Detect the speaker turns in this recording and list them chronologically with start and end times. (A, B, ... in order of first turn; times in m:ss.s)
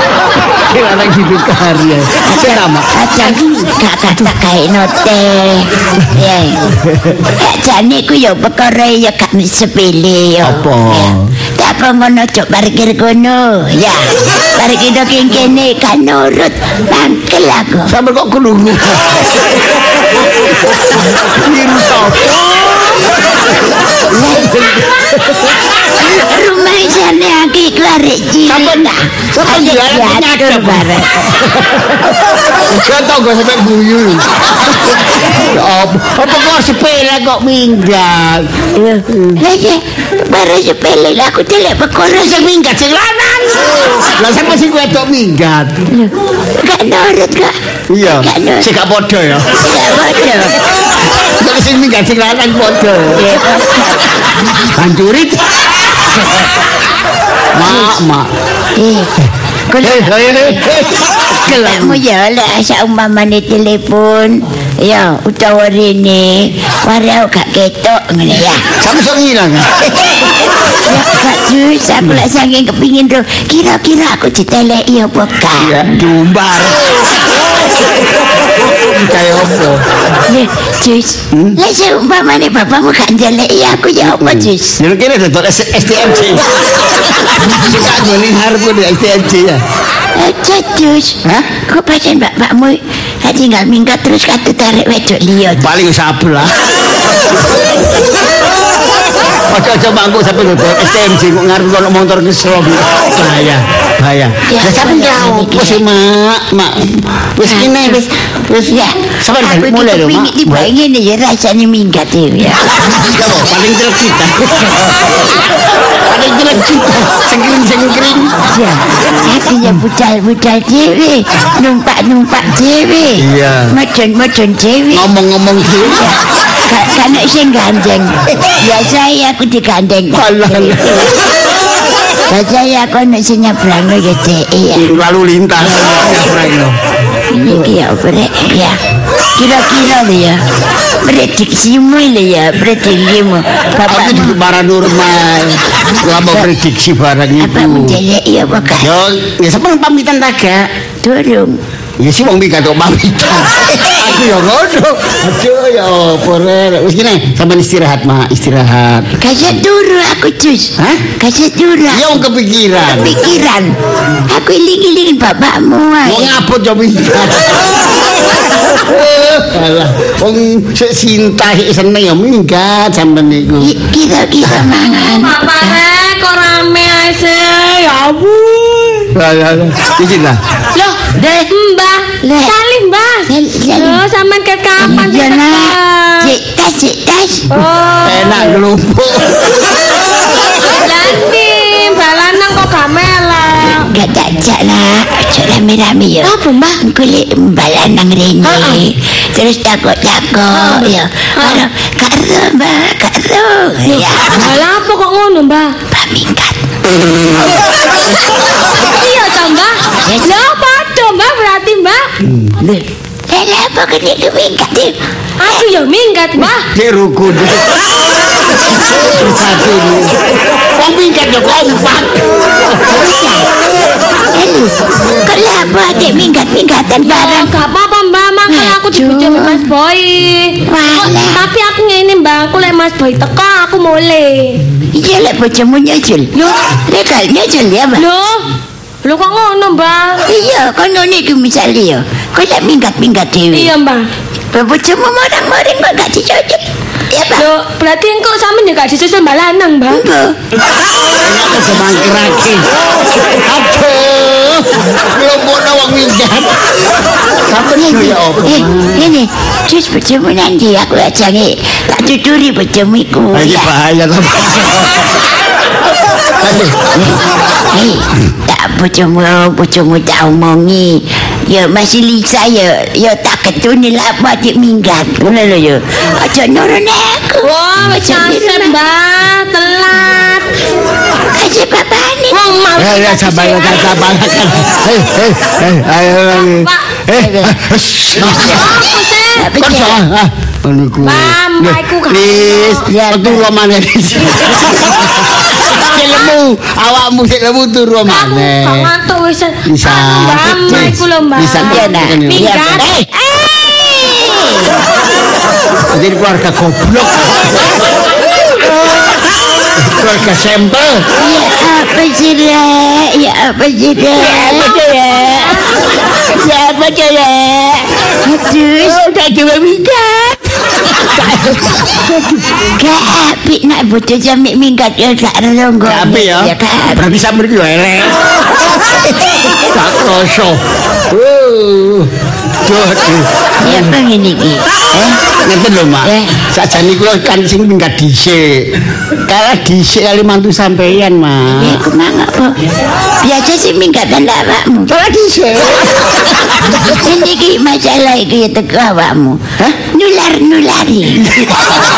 0:00.5-0:03.4 A
0:02.2-0:06.6 B
0:06.7-0:07.2 A
0:07.3-0:17.9 B
0:10.4-0:11.3 A
0:17.9-0:19.5 A
0:20.7-0:23.0 A
0:24.1-0:25.6 A
0:24.2-0:24.5 B
0:26.0-0:31.1 B
0:28.4-0:34.3 A
0:35.3-0:39.4 A
0:38.7-0:42.4 B
0:42.1-0:45.8 A
0:45.9-0:47.5 B
0:47.9-0:49.6 A
0:48.0-0:48.7 B
0:49.6-0:50.6 B
0:51.4-0:53.4 A
0:53.2-0:54.1 B
0:54.7-0:55.4 A
0:57.5-0:58.3 A
0:57.6-0:58.0 B
0:58.8-0:59.1 B
0:59.7-1:00.1 B
0:59.8-1:02.0 A
1:01.5-1:08.6 B
1:08.8-1:09.9 A
1:10.8-1:15.7 B
1:15.6-1:16.8 A
1:18.9-1:19.8 A
1:20.3-1:24.8 B
1:24.0-1:26.5 A
1:27.3-1:29.6 A
1:30.1-1:35.6 B
1:31.2-1:31.6 A
1:35.6-1:36.5 A
1:39.5-1:50.7 A
1:44.5-1:45.8 B
1:47.4-1:48.0 B
1:48.7-1:52.7 B
1:52.9-1:58.4 A
1:58.5-2:05.1 B
2:03.2-2:03.7 A
2:04.9-2:06.0 A
2:06.0-2:10.7 B
2:10.1-2:11.2 A
2:12.3-2:14.9 B
2:14.8-2:16.8 A
2:17.3-2:18.8 B
2:19.4-2:20.4 B
2:21.0-2:24.4 B
2:23.8-2:28.0 A
2:27.4-2:28.9 B
2:28.8-2:30.7 A
2:31.0-2:31.6 B
2:32.0-2:39.1 A
2:39.2-2:42.2 B
2:40.8-2:41.1 A
2:41.9-2:43.2 A
2:42.9-2:43.7 B
2:44.2-2:46.3 B
2:46.0-2:47.8 A
2:48.7-2:53.7 A
2:53.6-2:55.8 B
2:55.0-2:59.1 C
2:59.1-3:00.4 A
3:00.7-3:06.3 C
3:01.1-3:01.5 B
3:02.2-3:02.6 B
3:03.3-3:04.0 B
3:04.8-3:07.5 B
3:07.5-3:08.6 C
3:08.0-3:09.4 A
3:10.6-3:13.9 C
3:13.8-3:24.5 B
3:16.2-3:16.8 C
3:18.4-3:18.8 C
3:20.5-3:21.6 C
3:23.8-3:25.8 C
3:25.9-3:26.6 B
3:28.8-3:32.1 C
3:30.0-3:30.4 B
3:32.2-3:32.5 A
3:32.6-3:35.7 B
3:35.4-3:36.7 C
3:36.6-3:37.7 A
3:38.9-3:40.1 A
3:40.7-3:43.0 A
3:42.8-3:43.5 B
3:44.3-3:47.5 B
3:47.0-3:54.6 C
3:48.5-3:49.6 B
3:50.6-3:51.4 B
3:54.8-3:58.0 B
3:57.9-3:58.5 C
3:59.0-4:00.2 C
4:00.3-4:03.7 B
4:03.5-4:04.0 C
4:04.5-4:07.5 B
4:07.3-4:10.0 C
4:09.9-4:10.3 B
4:11.2-4:12.7 A
4:13.2-4:16.6 A
4:17.5-4:19.1 A
4:17.8-4:23.7 B
4:23.3-4:25.1 A
4:26.4-4:26.8 A
4:26.9-4:27.2 B
4:27.7-4:38.8 B
4:37.4-4:40.5 C
4:41.3-4:42.4 B
4:42.3-4:44.0 C
4:42.8-4:48.7 A
4:46.3-4:46.9 C
4:47.1-4:47.6 B
4:48.3-4:49.5 C
4:49.4-4:50.0 B
4:49.6-4:58.9 A
4:51.0-4:52.9 C
4:53.0-4:53.4 B
4:58.1-5:02.9 C
4:59.6-5:02.9 A
5:00.6-5:00.9 B
5:01.6-5:04.7 B
5:05.9-5:07.8 A
5:09.8-5:11.1 A
5:11.2-5:15.6 B
5:14.1-5:15.6 A
5:16.3-5:18.0 A
5:18.2-5:19.0 B
5:18.8-5:22.6 A
5:22.7-5:27.0 B
5:25.8-5:28.2 A
5:29.7-5:32.1 A
5:32.6-5:34.0 A
5:33.6-5:35.2 B
5:35.2-5:38.8 A
5:36.0-5:36.4 B
5:39.3-5:41.8 A
5:41.6-5:42.6 B
5:43.2-5:44.9 B
5:44.9-5:46.9 A
5:46.9-5:51.2 B
5:51.2-5:51.8 A